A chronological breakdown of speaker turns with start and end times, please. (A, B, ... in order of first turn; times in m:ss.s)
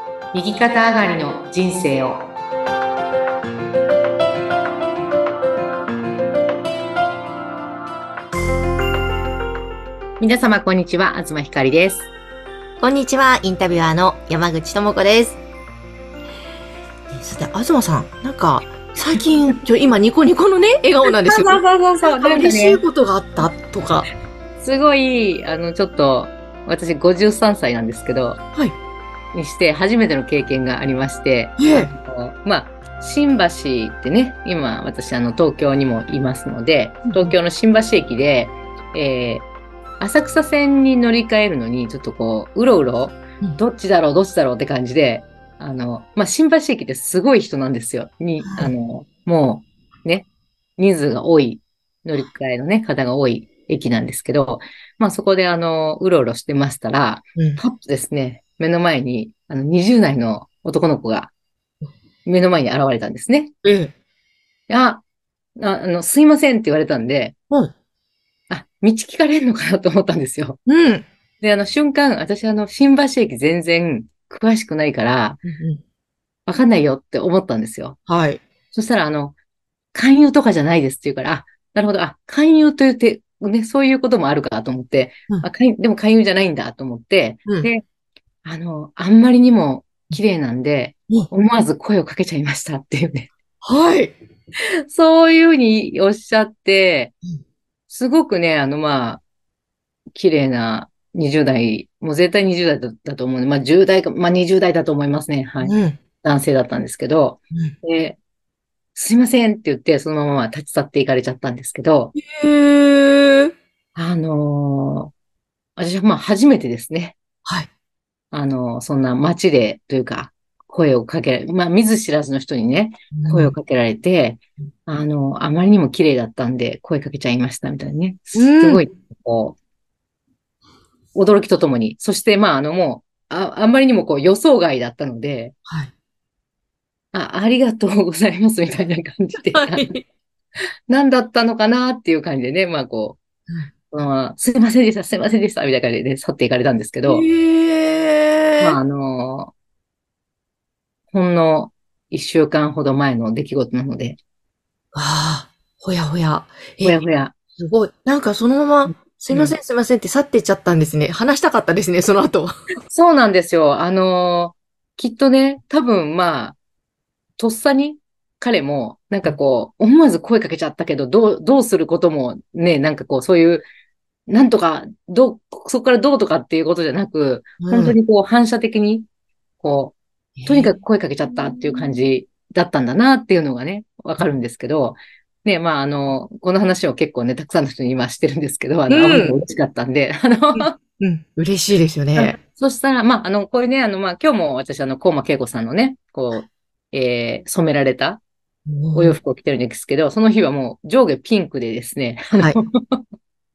0:00.3-0:02.3 A
0:10.2-0:12.1 A
0:12.8-0:15.4 B
0:17.1-0:24.1 B
0:21.2-0:22.8 A
0:24.6-0:28.4 A
0:29.3-0:39.4 A
0:31.6-0:31.9 B
0:37.1-0:37.3 B
0:40.0-1:01.3 A
0:48.4-0:48.7 B
0:57.3-0:57.6 B
1:02.2-1:03.5 A
1:03.6-1:03.9 B
1:04.7-1:05.0 A
1:05.6-1:07.3 A
1:08.5-1:10.6 A
1:10.6-1:11.0 B
1:11.4-1:15.4 A
1:15.4-1:15.8 B
1:16.5-1:18.0 A
1:18.1-1:18.4 B
1:18.7-1:19.4 A
1:19.9-1:27.8 A
1:28.4-1:33.3 A
1:33.6-1:34.2 B
1:34.9-1:37.1 A
1:37.9-1:39.2 A
1:40.1-1:48.2 A
1:45.6-1:46.0 B
1:48.9-1:52.1 A
1:52.1-1:53.5 B
1:53.9-1:55.1 A
1:55.8-1:57.2 A
1:58.3-2:09.6 A
2:03.1-2:03.5 B
2:08.3-2:08.8 B
2:11.1-2:15.5 A
2:15.6-2:15.9 B
2:17.1-2:19.9 A
2:19.5-2:20.0 B
2:20.9-2:23.2 A
2:23.9-2:27.2 A
2:27.0-2:28.8 B
2:28.6-2:29.5 A
2:31.1-2:34.2 A
2:34.9-2:37.0 B
2:36.8-2:37.3 A
2:37.6-2:42.5 B
2:38.9-2:39.6 A
2:42.9-2:46.6 A
2:47.4-2:53.7 A
2:54.3-2:59.0 A
2:57.6-2:58.0 B
2:59.6-3:10.7 A
3:00.4-3:00.7 B
3:08.9-3:09.4 B
3:10.6-3:12.4 B
3:12.2-3:18.2 A
3:18.7-3:19.2 B
3:18.9-3:23.0 A